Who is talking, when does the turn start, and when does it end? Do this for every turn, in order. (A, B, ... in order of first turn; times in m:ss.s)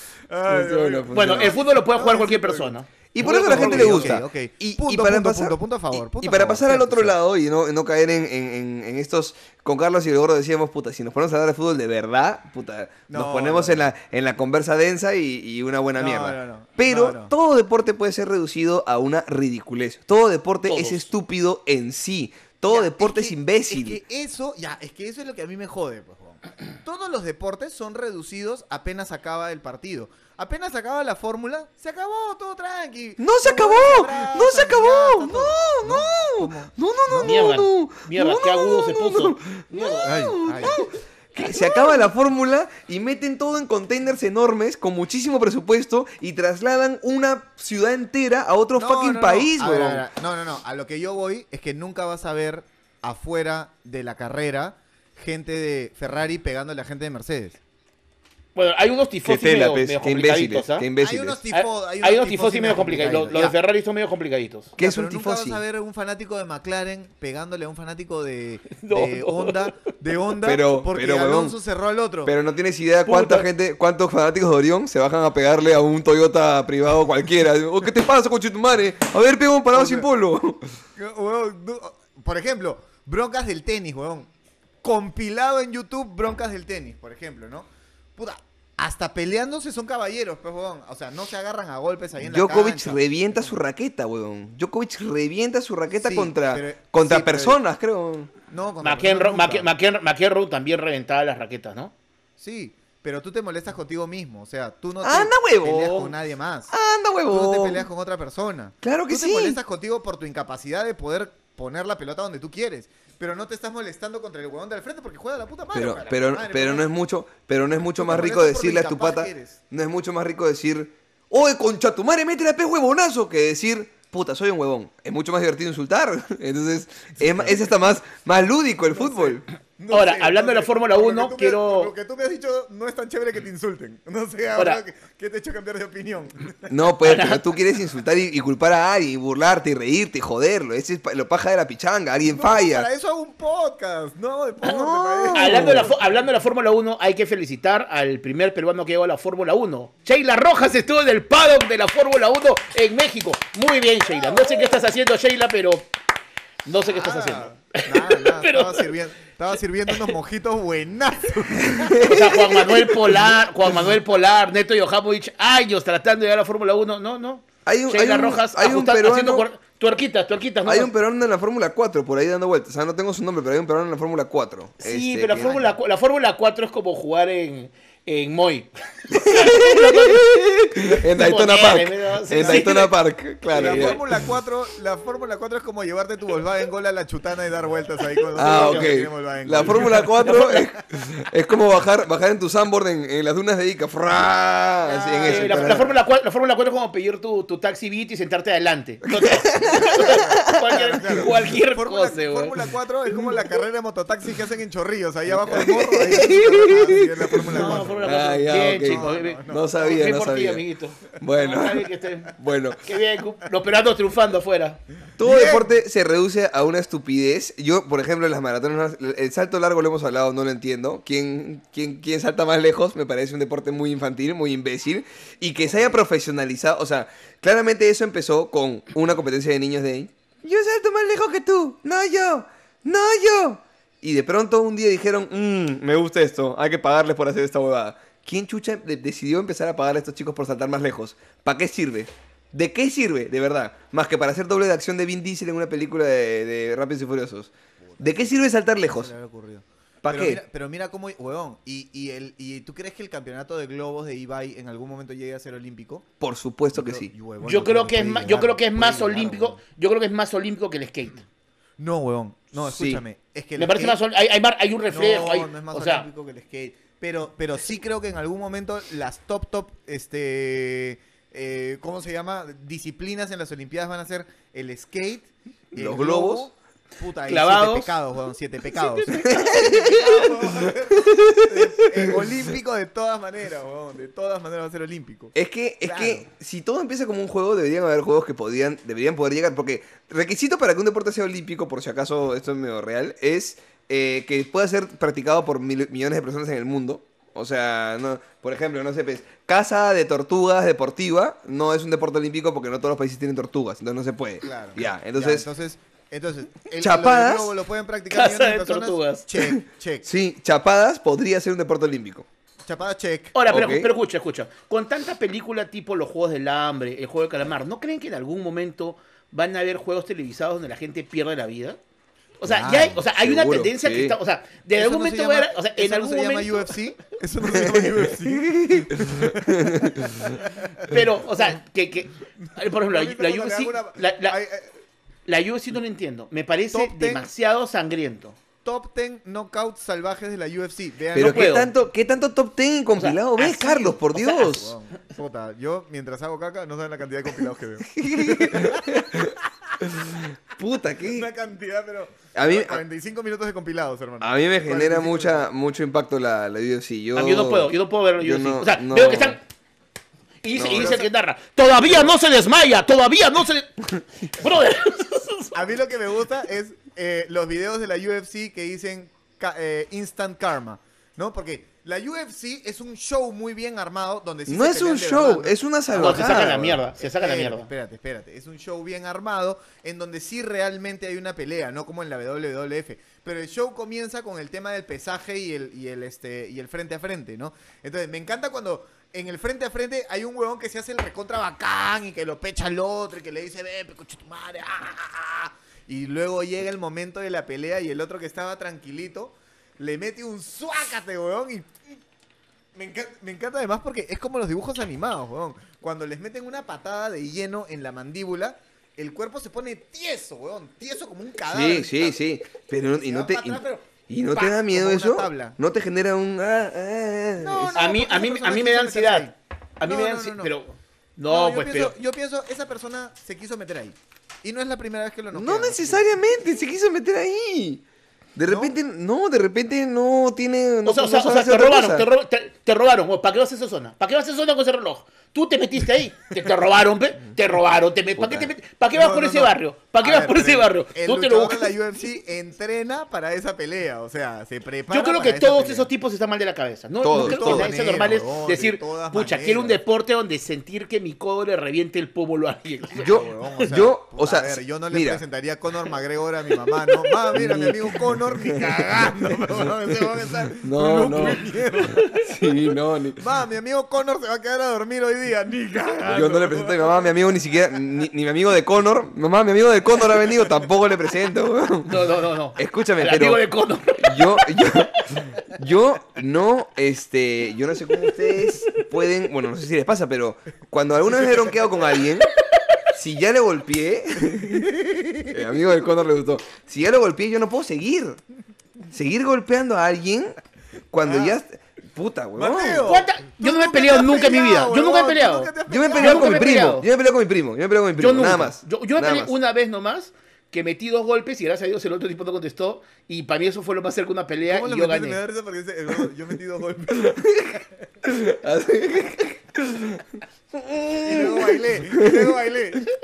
0:00.3-0:07.2 A
0:00.4-0:01.5 B
0:01.1-0:04.2 C
0:03.1-0:24.0 B
0:13.1-0:13.9 A
0:16.0-0:17.3 A
0:20.7-0:21.1 C
0:22.7-0:37.4 A
0:33.2-0:50.0 B
0:37.2-0:40.9 C
0:40.0-0:40.8 A
0:48.8-0:57.6 A
0:58.6-1:00.9 C
0:59.2-1:01.4 B
1:01.0-1:03.6 A
1:01.5-1:04.8 C
1:04.8-1:12.3 A
1:04.8-1:05.6 B
1:08.8-1:09.7 C
1:10.4-1:11.6 B
1:12.3-1:20.6 B
1:13.1-1:13.4 C
1:19.7-1:20.1 A
1:21.0-1:24.3 A
1:24.8-1:33.6 A
1:32.2-1:38.3 B
1:35.9-1:37.6 A
1:38.5-1:39.7 A
1:38.8-1:41.9 C
1:42.4-1:46.7 A
1:45.0-1:46.1 B
1:46.7-1:47.8 B
1:47.3-1:56.9 A
1:48.8-1:49.6 B
1:55.7-2:09.4 B
1:58.0-1:59.6 A
2:07.2-2:07.7 A
2:08.9-2:16.7 A
2:09.9-2:11.9 C
2:16.7-2:22.9 B
2:17.0-2:17.4 C
2:22.2-2:25.9 A
2:24.6-2:25.9 B
2:25.3-2:35.9 C
2:34.2-2:34.7 A
2:36.6-2:38.9 C
2:36.8-2:42.1 A
2:41.6-2:43.2 B
2:42.0-2:50.9 C
2:47.7-2:49.4 B
2:50.6-2:55.6 B
2:54.8-3:03.0 C
2:55.4-2:55.7 A
2:59.1-3:04.2 B
3:02.3-3:02.7 A
3:03.5-3:04.0 C
3:03.5-3:10.6 A
3:08.4-3:08.9 C
3:08.4-3:15.9 B
3:09.6-3:10.7 C
3:14.8-3:16.0 A
3:15.2-3:22.6 C
3:19.1-3:21.3 B
3:19.7-3:29.7 A
3:25.3-3:30.6 B
3:27.5-3:34.8 C
3:31.2-3:32.8 B
3:35.2-4:09.1 B
3:35.2-3:35.7 A
4:07.9-4:16.1 A
4:10.0-4:10.4 B
4:16.2-4:17.1 B
4:16.7-4:19.6 A
4:17.4-4:21.2 C
4:21.8-4:24.0 A
4:22.6-4:23.0 B
4:23.6-4:26.1 C
4:24.9-4:46.2 A
4:35.8-4:36.5 B
4:37.3-4:37.9 C
4:38.8-4:39.7 C
4:39.2-4:42.2 B
4:45.3-5:05.5 B
5:04.4-5:10.1 A
5:06.8-5:07.5 B
5:08.1-5:09.3 C
5:10.0-5:12.3 B
5:12.6-5:13.4 A
5:13.4-5:21.8 C
5:13.5-5:13.9 B
5:22.4-5:26.7 C
5:22.4-5:23.0 A
5:22.7-5:24.2 B
5:24.8-5:31.0 A
5:27.4-5:30.3 B
5:30.9-5:34.4 C
5:32.6-5:34.7 A
5:35.3-5:38.4 C
5:36.7-5:37.3 A
5:38.6-5:41.7 A
5:41.1-5:44.7 B
5:41.2-5:41.7 C
5:43.0-5:44.7 C
5:43.6-5:49.5 A
5:48.0-5:51.3 B
5:51.1-5:55.4 A
5:52.4-5:52.8 B
5:54.2-5:59.4 B
5:57.1-5:59.4 C
6:00.4-6:05.6 C
6:00.6-6:01.0 B
6:00.6-6:01.1 A
6:05.5-6:42.0 A
6:14.5-6:16.8 B
6:15.9-6:17.7 C
6:42.8-6:52.2 A
6:51.5-6:57.8 B
6:52.9-6:55.6 A
6:57.4-7:00.5 A
6:57.7-6:59.3 C
6:59.8-7:02.0 C
7:01.3-7:06.0 A
7:05.3-7:07.8 B
7:08.4-7:12.1 B
7:08.5-7:08.7 A
7:10.8-7:21.7 C
7:18.2-7:18.5 B
7:18.9-7:25.9 A
7:24.9-7:33.6 C
7:27.0-7:27.8 B
7:27.1-7:29.8 A
7:32.9-7:42.1 A
7:33.0-7:35.2 B
7:36.6-7:37.6 C
7:37.3-7:38.8 B
7:40.6-7:41.5 B
7:41.8-7:42.3 C
7:42.1-7:43.2 B
7:43.2-7:47.2 A
7:46.0-7:53.4 B
7:51.9-7:54.7 C
7:54.0-8:02.3 B
7:58.3-7:58.8 C
8:01.1-8:01.7 A
8:02.9-8:04.7 B
8:04.2-8:05.4 A
8:05.3-8:08.2 B
8:08.9-8:10.4 B
8:10.9-8:12.9 B
8:11.0-8:11.4 A
8:12.4-8:16.5 A
8:12.8-8:16.9 C
8:15.7-8:19.3 B
8:18.0-8:25.2 C
8:24.5-8:27.6 A
8:27.0-8:32.4 B
8:31.0-8:32.9 A